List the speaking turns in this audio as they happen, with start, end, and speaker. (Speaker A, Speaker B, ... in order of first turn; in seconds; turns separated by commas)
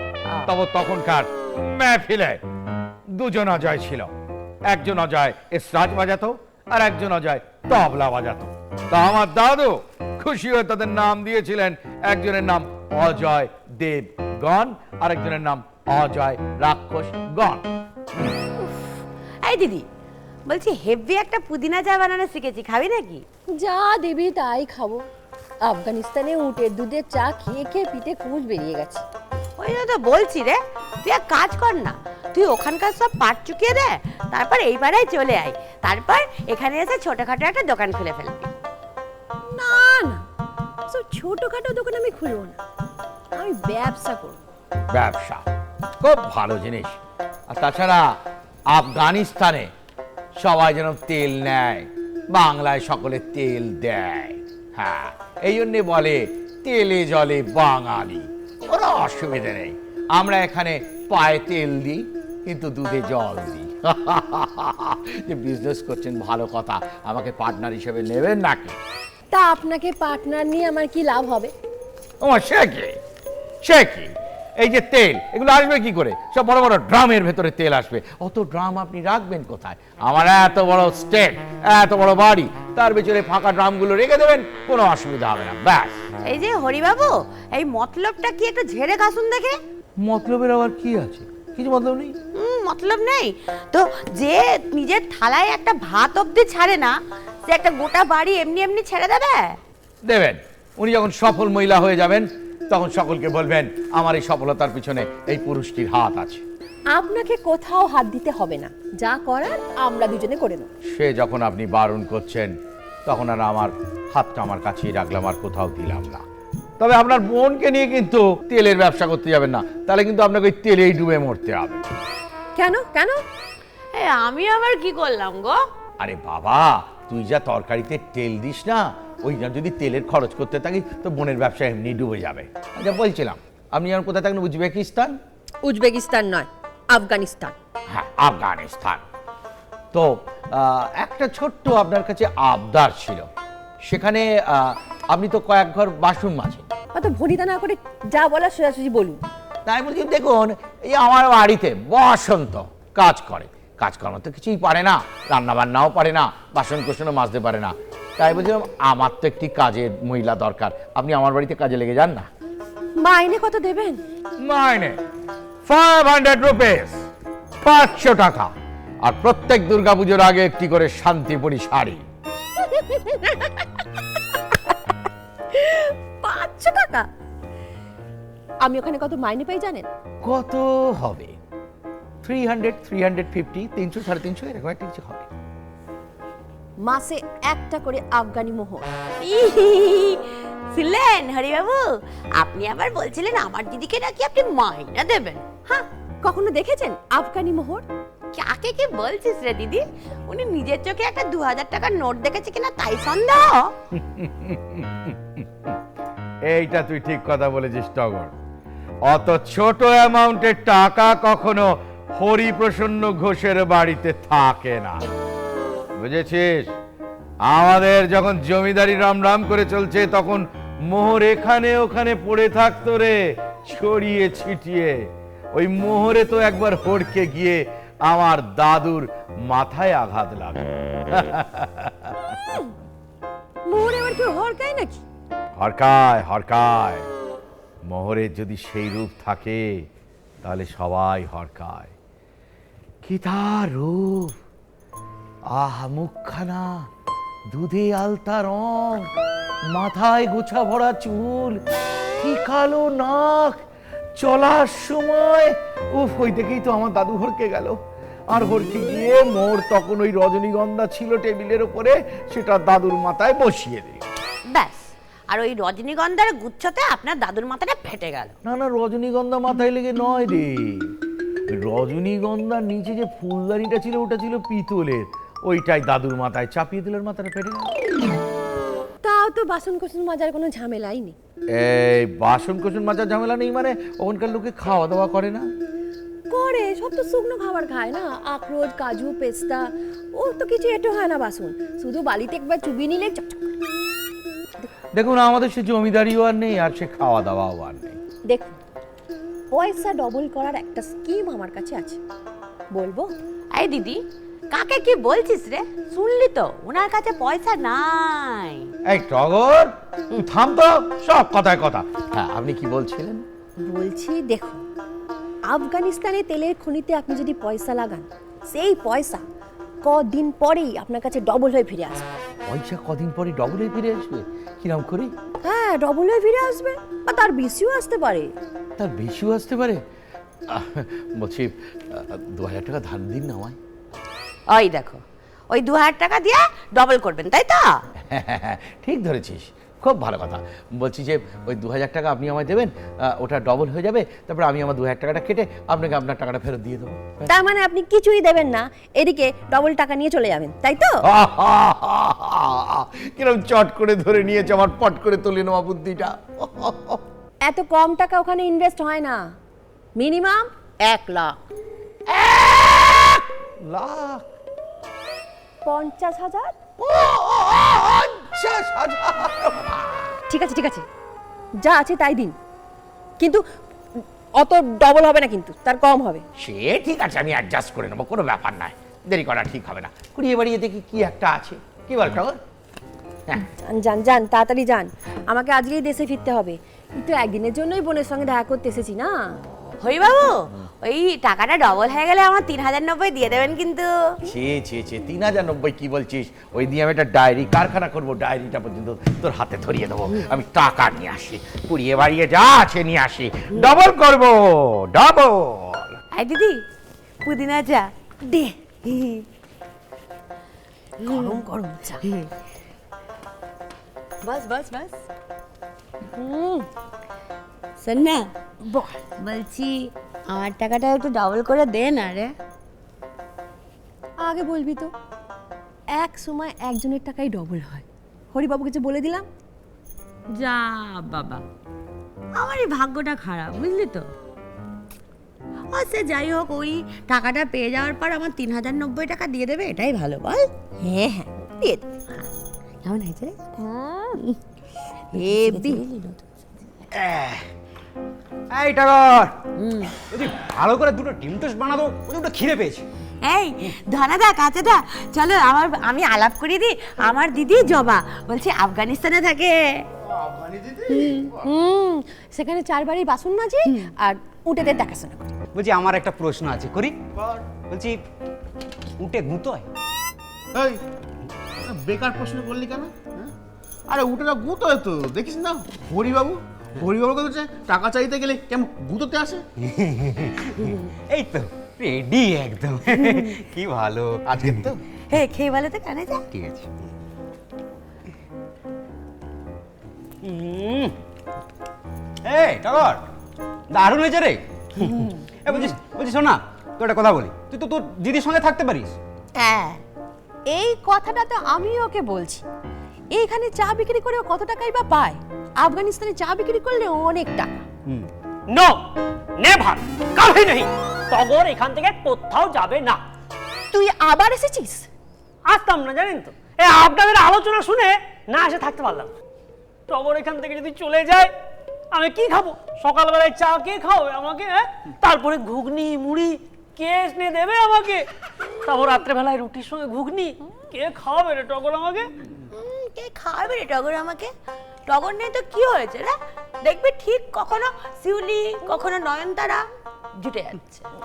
Speaker A: 0.5-2.4, Speaker A: 3.1-4.1, Speaker A: 4.7-17.7, Speaker B: 18.5-19.9, Speaker B: 20.5-23.2, Speaker C: 23.6-25.1, Speaker C: 25.6-29.0, Speaker B: 29.6-38.5, Speaker C: 39.5-40.2, Speaker C: 40.9-42.6, Speaker C: 43.3-44.4, Speaker A: 44.9-45.4, Speaker A: 46.0-47.0, Speaker A: 47.5-48.2, Speaker A: 48.7-49.7, Speaker A: 50.4-68.8, Speaker C: 69.3-71.5, Speaker A: 72.2-73.0, Speaker A: 73.6-86.0, Speaker B: 86.2-89.6, Speaker A: 90.0-92.2, Speaker B: 92.3-97.0, Speaker B: 97.5-99.6, Speaker A: 100.0-106.4, Speaker C: 106.9-110.7, Speaker A: 110.9-112.5, Speaker A: 113.0-116.2, Speaker A: 116.8-121.8, Speaker C: 122.5-123.2, Speaker B: 123.9-125.6, Speaker A: 126.0-135.2, Speaker C: 135.6-137.5, Speaker A: 137.9-139.0, Speaker A: 139.9-143.3, Speaker A: 143.8-146.7, Speaker C: 146.9-149.2, Speaker A: 149.7-162.3, Speaker C: 163.0-164.0, Speaker A: 164.4-165.0, Speaker A: 165.7-167.1, Speaker A: 167.6-168.5, Speaker A: 169.0-172.1, Speaker C: 172.7-173.5, Speaker C: 175.5-177.1, Speaker C: 178.6-179.9, Speaker A: 180.2-181.4, Speaker A: 182.2-185.3, Speaker C: 186.8-188.9, Speaker B: 189.2-195.9, Speaker C: 196.2-197.8, Speaker B: 198.3-203.7, Speaker A: 203.9-205.8, Speaker A: 206.5-208.3, Speaker A: 209.1-215.0, Speaker A: 216.0-216.7, Speaker A: 217.5-232.3, Speaker C: 233.7-235.0, Speaker A: 235.6-237.1, Speaker A: 237.8-239.8, Speaker A: 240.4-241.9, Speaker A: 243.0-244.3, Speaker A: 245.5-246.9, Speaker A: 247.5-249.1, Speaker A: 249.7-251.6, Speaker A: 252.2-253.6, Speaker A: 254.2-264.1, Speaker B: 264.5-268.4, Speaker A: 268.4-270.9, Speaker A: 271.5-277.7, Speaker C: 279.0-281.1, Speaker A: 281.5-285.5, Speaker C: 286.3-293.5, Speaker A: 294.9-298.0, Speaker C: 298.3-298.6, Speaker C: 299.5-302.0, Speaker C: 302.7-303.1, Speaker B: 303.5-308.7, Speaker A: 308.9-313.2, Speaker C: 313.6-314.6, Speaker C: 315.5-319.2, Speaker C: 319.8-322.1, Speaker A: 322.4-325.1, Speaker C: 325.4-328.3, Speaker A: 328.8-329.8, Speaker A: 330.5-333.6, Speaker B: 334.5-337.8, Speaker A: 338.0-347.3, Speaker C: 347.3-351.0, Speaker A: 351.0-357.0, Speaker C: 357.4-359.3, Speaker C: 359.9-361.4, Speaker A: 362.1-364.2, Speaker C: 365.6-366.6, Speaker A: 366.8-370.2, Speaker C: 370.3-370.9, Speaker C: 371.6-372.4, Speaker C: 374.4-376.2, Speaker A: 376.4-382.4, Speaker C: 383.6-389.4, Speaker B: 389.8-394.2, Speaker A: 394.2-406.0, Speaker B: 406.1-406.6, Speaker B: 407.2-407.9, Speaker C: 408.2-408.6, Speaker B: 408.8-409.2, Speaker B: 411.0-411.3, Speaker C: 411.0-412.0, Speaker B: 412.1-412.3, Speaker B: 414.2-415.0, Speaker C: 416.1-416.7, Speaker B: 417.8-418.3, Speaker C: 418.6-419.0, Speaker B: 419.2-422.3, Speaker C: 424.2-424.9, Speaker C: 425.9-429.2, Speaker B: 430.3-431.4, Speaker B: 432.3-434.1, Speaker B: 435.7-440.5, Speaker C: 440.8-441.9, Speaker B: 442.8-444.4, Speaker B: 445.1-446.2, Speaker C: 445.1-445.8, Speaker D: 446.9-447.4, Speaker D: 448.5-452.8, Speaker B: 453.2-459.9, Speaker E: 460.0-461.4, Speaker B: 460.9-461.3, Speaker C: 461.4-465.3, Speaker D: 465.5-467.0, Speaker E: 467.2-467.5, Speaker D: 467.6-468.0, Speaker D: 469.0-469.7, Speaker E: 470.5-470.8, Speaker E: 471.6-473.3, Speaker E: 473.9-479.4, Speaker D: 479.6-484.7, Speaker E: 484.3-484.8, Speaker B: 485.1-486.2, Speaker D: 486.3-486.8, Speaker D: 490.2-490.9, Speaker D: 492.2-493.0, Speaker D: 493.7-499.0, Speaker C: 499.4-499.8, Speaker C: 500.5-502.4, Speaker C: 503.1-507.6, Speaker F: 508.5-508.8, Speaker F: 509.4-513.0, Speaker C: 513.7-514.9, Speaker F: 515.5-519.1, Speaker F: 519.9-521.3, Speaker F: 521.9-532.1, Speaker B: 532.5-534.3, Speaker B: 534.9-540.9